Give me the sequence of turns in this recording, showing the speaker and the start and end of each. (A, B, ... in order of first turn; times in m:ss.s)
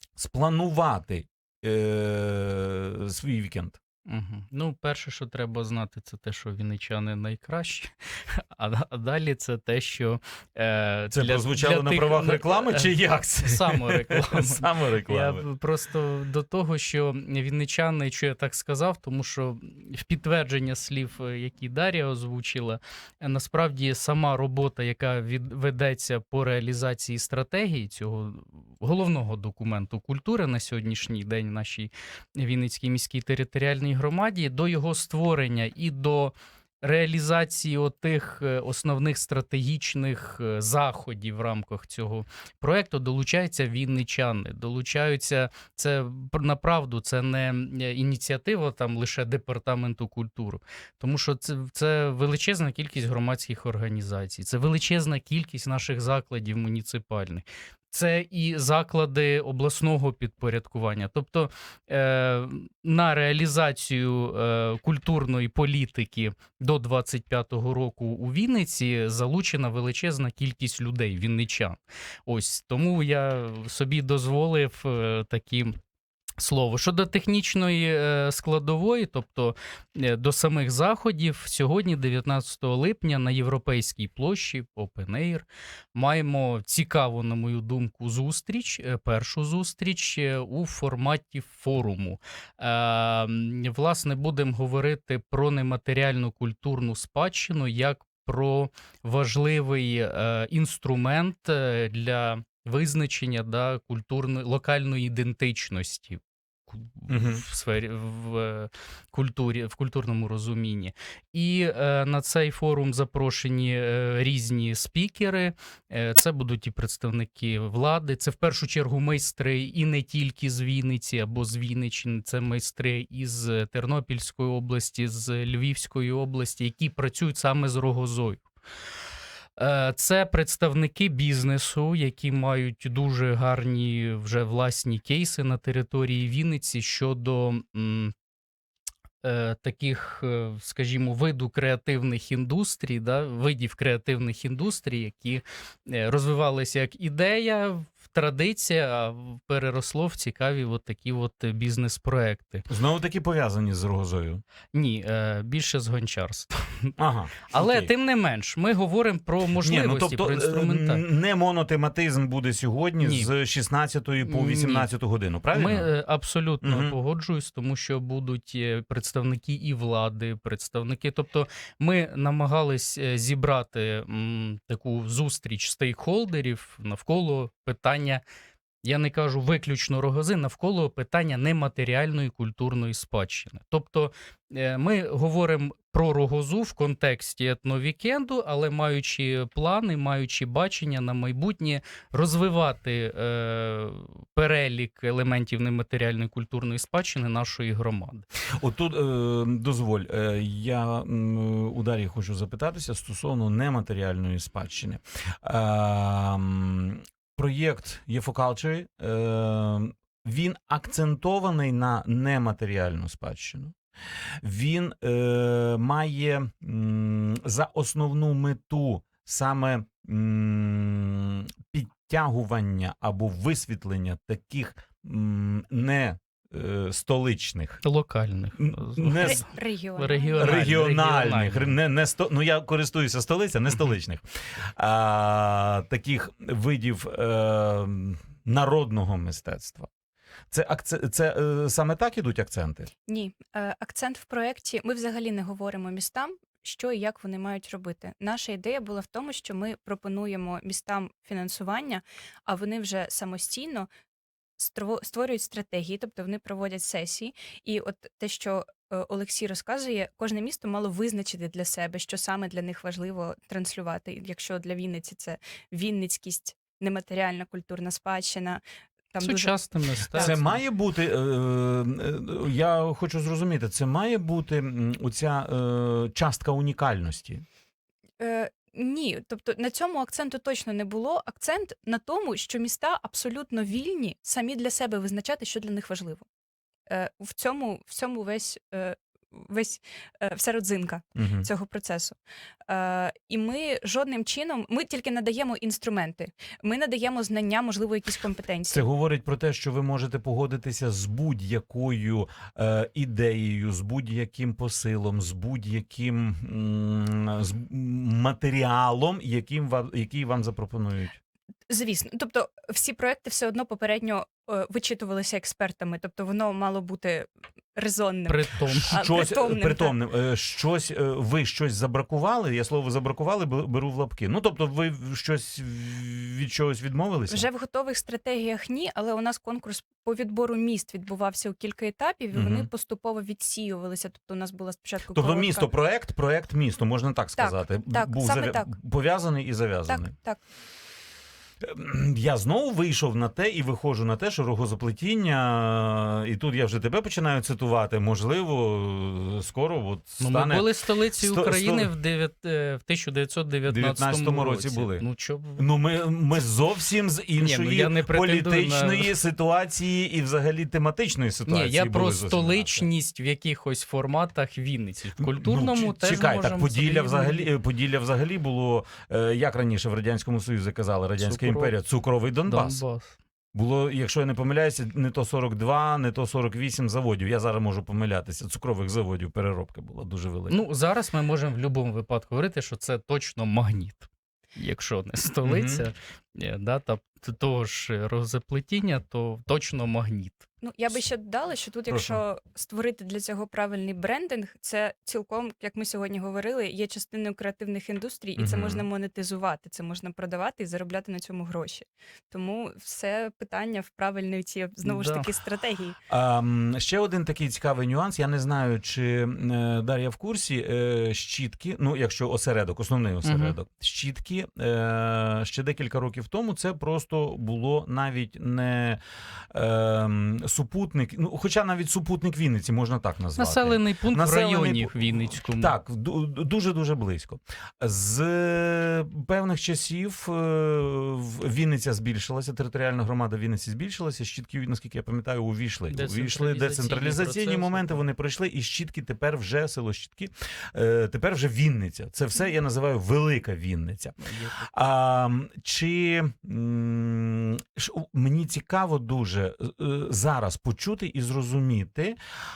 0:00.2-0:03.8 A
0:04.1-1:15.8 B
0:11.1-0:15.4 A
1:16.4-2:08.4 B
1:47.1-1:47.4 A
2:09.6-2:18.1 B
2:19.2-2:32.6 B
2:32.7-2:34.4 A
2:34.7-2:36.9 B
2:37.0-2:37.9 A
2:37.5-2:41.0 B
2:39.6-2:45.9 A
2:43.0-2:43.3 B
2:44.3-2:44.9 B
2:45.5-2:58.2 B
2:46.6-2:47.0 A
2:58.8-3:18.2 B
3:18.6-3:33.8 A
3:34.4-3:47.8 A
3:47.8-3:51.8 B
3:48.6-3:49.4 A
3:49.2-3:50.5 C
3:50.4-3:54.2 A
3:54.8-3:59.9 A
4:00.5-4:02.9 A
4:03.1-4:13.9 C
4:14.6-4:29.6 C
4:29.2-4:30.4 B
4:30.1-4:30.4 C
4:30.2-4:37.4 A
4:38.2-4:46.2 C
4:46.9-4:58.8 C
4:51.2-4:51.5 A
4:58.7-5:11.2 A
5:11.7-5:20.0 C
5:18.3-5:19.0 B
5:18.8-5:27.5 A
5:27.3-5:35.7 C
5:32.3-5:32.7 A
5:35.1-5:40.1 A
5:37.4-5:38.8 C
5:39.9-5:40.4 C
5:41.6-5:51.9 A
5:50.2-5:55.6 B
5:53.7-5:55.0 A
5:55.6-6:02.9 A
5:57.4-5:59.2 B
6:01.5-6:07.5 B
6:05.2-6:12.8 A
6:11.2-6:11.7 B
6:12.5-6:13.2 B
6:13.5-6:20.6 A
6:20.5-6:30.5 B
6:25.4-6:25.8 A
6:30.6-6:46.0 C
6:31.9-6:32.2 A
6:38.4-6:38.8 A
6:44.8-6:45.3 B
6:46.1-6:59.0 A
6:53.2-6:53.6 B
6:59.5-7:32.2 A
7:03.4-7:05.8 B
7:15.9-7:18.0 B
7:24.2-7:24.6 B